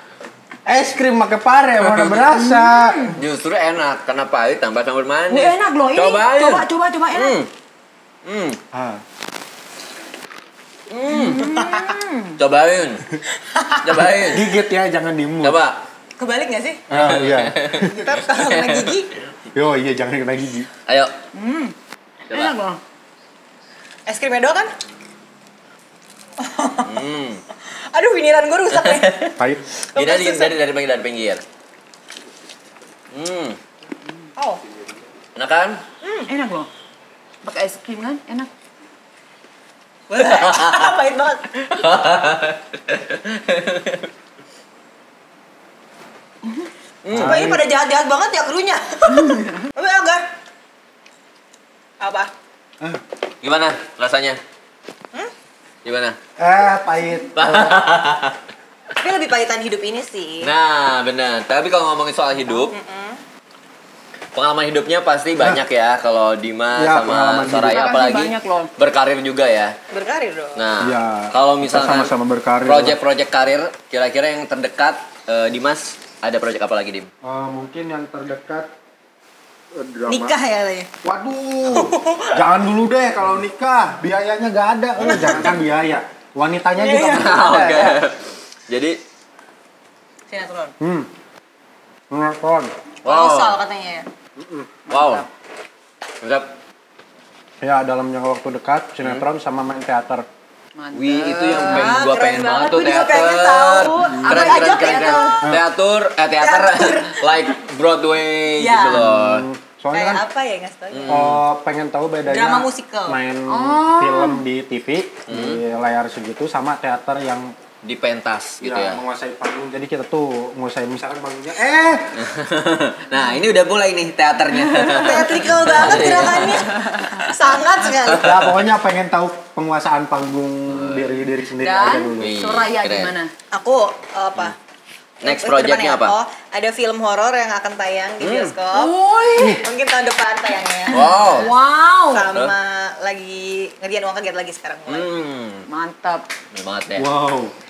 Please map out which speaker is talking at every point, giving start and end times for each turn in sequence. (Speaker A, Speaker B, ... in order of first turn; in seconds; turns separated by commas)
Speaker A: 0.7-3.1, Speaker B: 1.8-2.2, Speaker C: 2.3-3.2, Speaker B: 3.1-7.5, Speaker C: 5.3-7.4, Speaker B: 8.3-8.6, Speaker A: 8.7-9.0, Speaker B: 10.9-11.5, Speaker C: 11.1-12.4, Speaker D: 11.5-11.8, Speaker B: 12.4-13.1, Speaker D: 13.4-13.8, Speaker B: 13.8-14.5, Speaker A: 14.3-15.6, Speaker B: 15.4-15.8, Speaker D: 16.2-16.9, Speaker A: 16.9-18.1, Speaker B: 16.9-19.0, Speaker D: 17.7-19.1, Speaker A: 19.5-20.7, Speaker B: 20.9-21.1, Speaker C: 21.3-21.8, Speaker C: 22.3-22.8, Speaker B: 22.3-22.6, Speaker D: 24.1-24.7, Speaker D: 26.4-27.0, Speaker B: 26.8-27.4, Speaker D: 27.9-29.2, Speaker B: 28.7-31.4, Speaker D: 29.9-30.6, Speaker B: 33.1-33.6, Speaker B: 35.4-35.8, Speaker D: 36.0-36.3, Speaker C: 36.3-36.7, Speaker C: 37.4-38.5, Speaker D: 40.1-41.6, Speaker B: 40.2-40.9, Speaker B: 41.7-44.1, Speaker B: 47.0-47.5, Speaker A: 47.1-47.6, Speaker D: 47.2-50.2, Speaker C: 49.2-49.5, Speaker D: 52.0-52.3, Speaker B: 53.4-54.4, Speaker B: 55.9-56.2, Speaker A: 56.4-57.8, Speaker B: 57.4-58.4, Speaker D: 59.0-60.5, Speaker B: 60.4-62.7, Speaker D: 62.5-63.2, Speaker B: 64.3-69.7, Speaker A: 66.8-67.9, Speaker C: 67.7-68.7, Speaker D: 69.9-70.6, Speaker B: 70.5-72.1, Speaker A: 70.8-73.0, Speaker B: 72.6-77.1, Speaker A: 77.2-78.7, Speaker A: 79.7-80.3, Speaker D: 80.1-80.9, Speaker A: 81.0-88.0, Speaker D: 81.7-82.4, Speaker B: 85.0-85.4, Speaker D: 85.0-85.6, Speaker D: 86.8-87.9, Speaker B: 87.1-88.2, Speaker B: 88.7-89.0, Speaker D: 90.3-90.7, Speaker A: 90.8-91.1, Speaker A: 92.1-92.7, Speaker B: 93.0-93.6, Speaker D: 93.0-94.1, Speaker A: 94.4-94.7, Speaker C: 94.9-95.3, Speaker B: 94.9-95.3, Speaker B: 96.2-96.5, Speaker A: 97.6-100.3, Speaker C: 100.8-102.1, Speaker B: 100.9-109.5, Speaker D: 101.7-105.4, Speaker C: 104.1-105.3, Speaker D: 106.4-107.6, Speaker D: 108.6-109.1, Speaker A: 108.9-110.2, Speaker D: 109.9-111.2, Speaker B: 110.9-111.4, Speaker A: 111.1-117.5, Speaker D: 112.3-113.2, Speaker C: 113.5-114.4, Speaker B: 115.3-115.6, Speaker B: 117.8-119.0, Speaker A: 118.6-122.2, Speaker B: 122.2-127.3, Speaker D: 124.9-128.3, Speaker B: 127.8-128.5, Speaker A: 128.1-132.3, Speaker B: 130.7-131.2, Speaker C: 131.6-133.3, Speaker B: 132.2-133.1, Speaker D: 133.5-134.6, Speaker D: 135.2-138.9, Speaker B: 135.2-136.2, Speaker B: 138.2-138.6, Speaker C: 138.7-139.6, Speaker D: 139.6-141.5, Speaker B: 140.9-141.5, Speaker C: 141.0-142.3, Speaker D: 142.1-145.1, Speaker B: 144.9-145.7, Speaker C: 145.7-146.2, Speaker B: 146.5-147.1, Speaker A: 147.0-147.5